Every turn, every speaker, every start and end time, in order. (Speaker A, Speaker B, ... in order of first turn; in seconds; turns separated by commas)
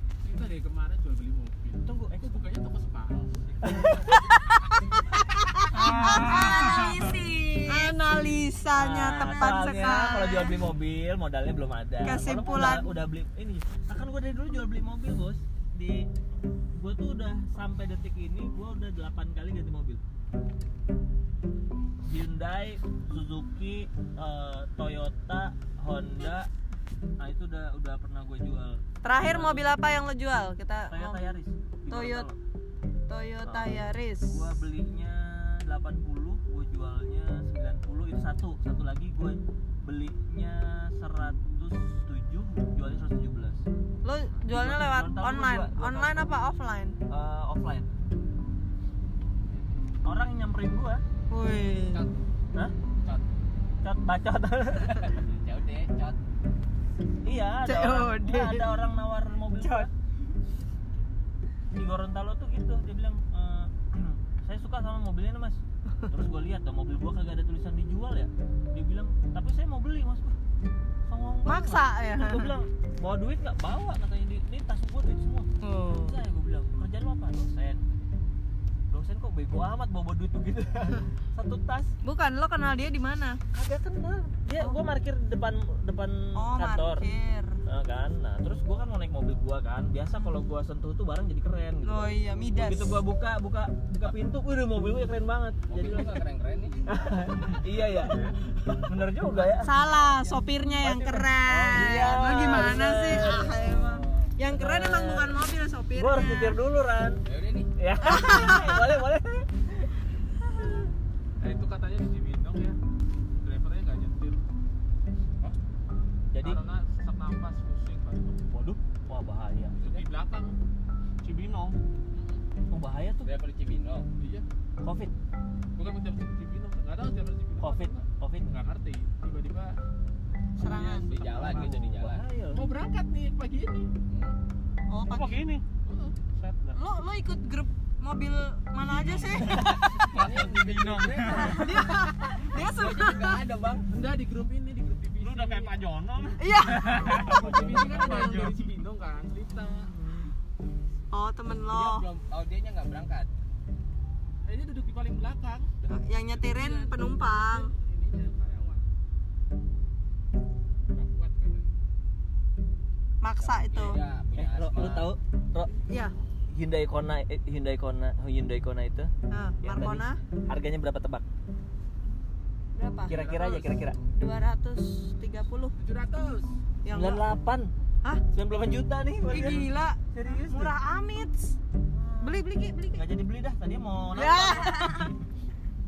Speaker A: 0.2-3.7, Speaker B: 1.8-2.5, Speaker B: 3.6-4.0, Speaker C: 3.6-4.1, Speaker D: 4.1-10.6, Speaker B: 5.7-7.2, Speaker E: 5.9-6.3, Speaker B: 8.7-16.1, Speaker D: 12.0-12.9, Speaker B: 16.7-20.0, Speaker B: 22.0-26.5, Speaker B: 27.2-29.8, Speaker D: 29.0-31.2, Speaker B: 30.9-32.4, Speaker D: 31.9-32.3, Speaker D: 33.1-34.5, Speaker B: 33.4-43.6, Speaker D: 44.0-47.0, Speaker B: 44.5-46.3, Speaker B: 47.1-47.9, Speaker B: 50.0-51.0, Speaker D: 51.3-52.0, Speaker C: 53.0-53.2, Speaker B: 53.8-55.2, Speaker C: 55.0-56.2, Speaker B: 57.2-59.9, Speaker D: 57.6-58.7, Speaker D: 59.6-59.9, Speaker B: 61.8-70.3, Speaker B: 71.0-77.8, Speaker D: 71.5-72.6, Speaker D: 75.6-76.2, Speaker B: 78.9-81.9, Speaker D: 82.0-83.4, Speaker B: 83.5-87.0, Speaker D: 86.3-87.6, Speaker B: 87.7-96.2, Speaker D: 91.8-93.0, Speaker C: 95.7-97.2, Speaker B: 96.9-99.7, Speaker D: 99.6-106.6, Speaker C: 99.6-100.0, Speaker B: 100.8-105.4, Speaker C: 103.6-104.0, Speaker B: 105.9-107.2, Speaker C: 107.2-107.7, Speaker B: 107.8-109.9, Speaker D: 108.0-108.9, Speaker A: 111.4-112.8, Speaker A: 113.3-114.4, Speaker B: 116.3-116.6, Speaker A: 116.4-118.5, Speaker B: 118.5-119.8, Speaker A: 119.8-120.6, Speaker C: 119.8-120.0, Speaker E: 121.2-121.8, Speaker A: 122.1-122.4, Speaker B: 122.7-123.3, Speaker C: 123.2-124.1, Speaker A: 124.2-124.4, Speaker B: 124.8-125.1, Speaker A: 125.8-129.8, Speaker B: 127.6-128.7, Speaker A: 130.6-131.7, Speaker D: 130.6-131.1, Speaker C: 130.9-132.2, Speaker B: 131.3-132.6, Speaker A: 132.5-133.9, Speaker C: 134.1-134.4, Speaker D: 134.9-135.4, Speaker E: 135.0-135.6, Speaker A: 135.8-136.2, Speaker E: 136.3-136.8, Speaker D: 136.7-140.1, Speaker E: 138.8-141.7, Speaker B: 139.5-139.7, Speaker C: 139.9-143.9, Speaker A: 140.2-140.5, Speaker D: 141.3-143.4, Speaker A: 143.9-145.8, Speaker E: 145.2-148.6, Speaker D: 146.4-147.4, Speaker A: 146.7-150.0, Speaker B: 147.1-148.3, Speaker D: 148.0-148.4, Speaker D: 151.1-152.1, Speaker C: 151.7-153.3, Speaker A: 154.4-158.8, Speaker D: 155.9-157.7, Speaker A: 160.9-161.7, Speaker D: 163.2-164.0, Speaker C: 163.4-165.1, Speaker B: 164.4-165.7, Speaker D: 165.9-166.1, Speaker B: 166.5-171.2, Speaker D: 169.3-170.2, Speaker D: 172.7-175.7, Speaker B: 173.1-174.0, Speaker A: 173.1-173.4, Speaker A: 175.8-176.6, Speaker D: 176.8-177.2, Speaker B: 176.9-177.7, Speaker B: 178.3-180.8, Speaker D: 179.2-181.6, Speaker B: 181.9-185.1, Speaker D: 182.2-183.1, Speaker D: 184.1-185.1